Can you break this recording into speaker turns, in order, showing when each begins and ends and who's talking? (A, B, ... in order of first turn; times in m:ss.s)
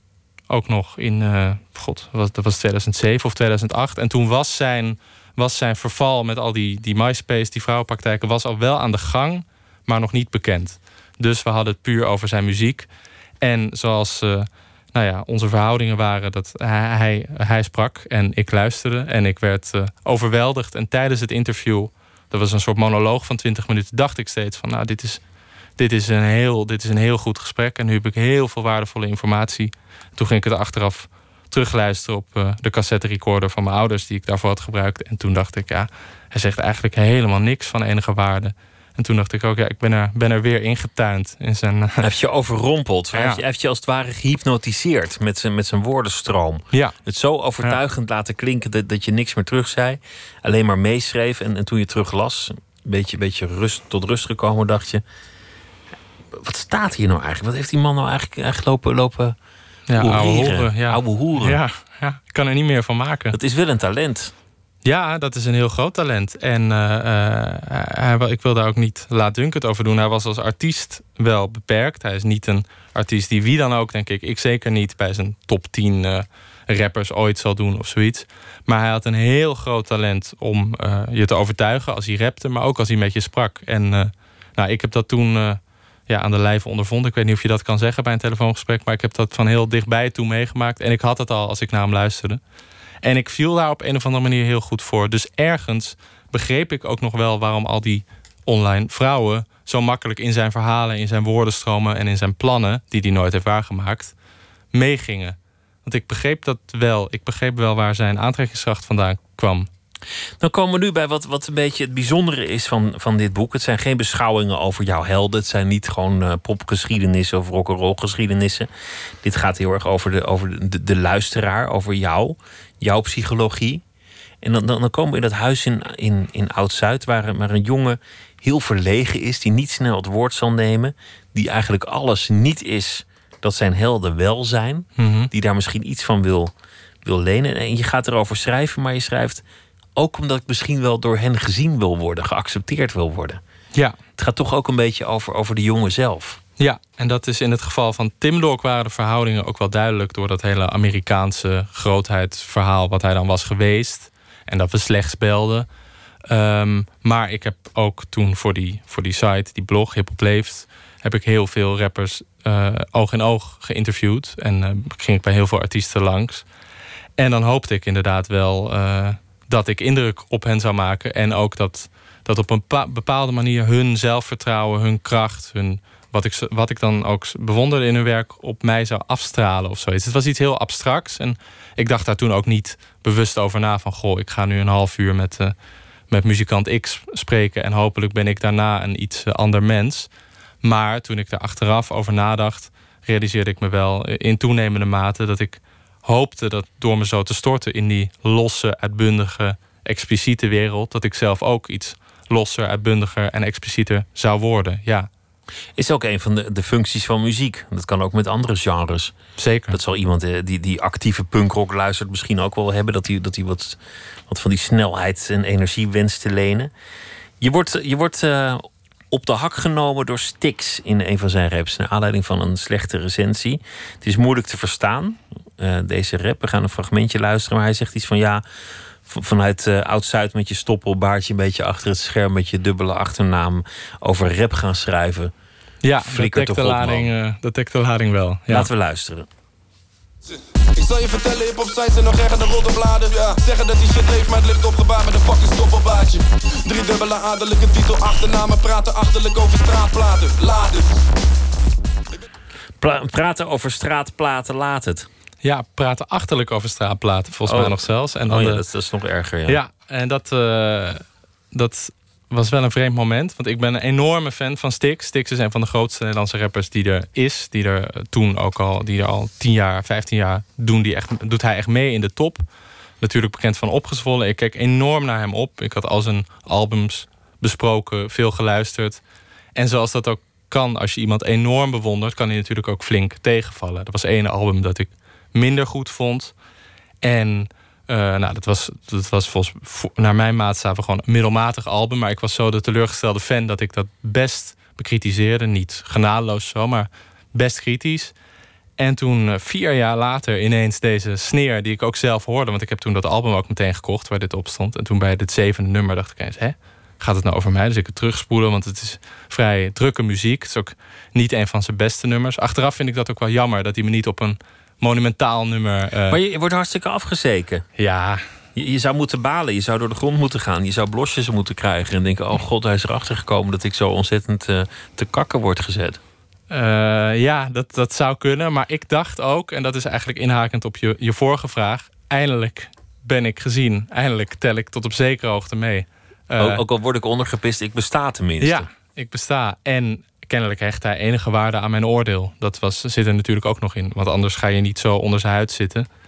0:00.5-0:12.9 A
0:13.4-0:25.2 A
0:25.8-0:42.0 A
0:42.0-0:55.0 B
0:43.1-0:43.4 A
0:56.3-0:59.4 B
0:59.9-1:03.4 A
0:59.9-1:01.6 B
1:03.3-1:04.3 B
1:04.8-1:32.4 A
1:33.0-1:44.1 A
1:44.7-1:49.7 A
1:50.4-1:58.7 B
1:59.2-2:03.8 B
2:04.4-2:16.5 B
2:15.0-2:15.3 A
2:17.0-2:19.4 B
2:20.0-2:23.4 B
2:24.2-2:26.4 B
2:26.6-2:35.7 A
2:36.3-2:46.4 A
2:47.2-3:05.5 A
3:06.1-3:10.1 A
3:10.6-3:25.1 A
3:25.8-3:29.1 B
3:29.4-3:29.8 A
3:29.7-3:36.7 B
3:37.4-3:48.4 B
3:49.0-3:55.3 B
3:55.8-3:58.7 A
3:56.0-3:57.1 B
3:58.5-3:59.3 B
4:00.8-4:10.9 C
4:12.8-4:15.1 B
4:15.4-4:18.6 A
4:17.4-4:19.6 B
4:19.5-4:32.4 A
4:33.0-4:39.0 A
4:39.6-4:46.3 A
4:47.0-4:58.1 A
4:58.8-5:16.2 A
5:16.1-5:17.6 B
5:17.8-5:18.2 A
5:18.5-5:26.0 B
5:26.5-5:36.6 A
5:36.4-5:38.7 B
5:38.4-5:45.9 A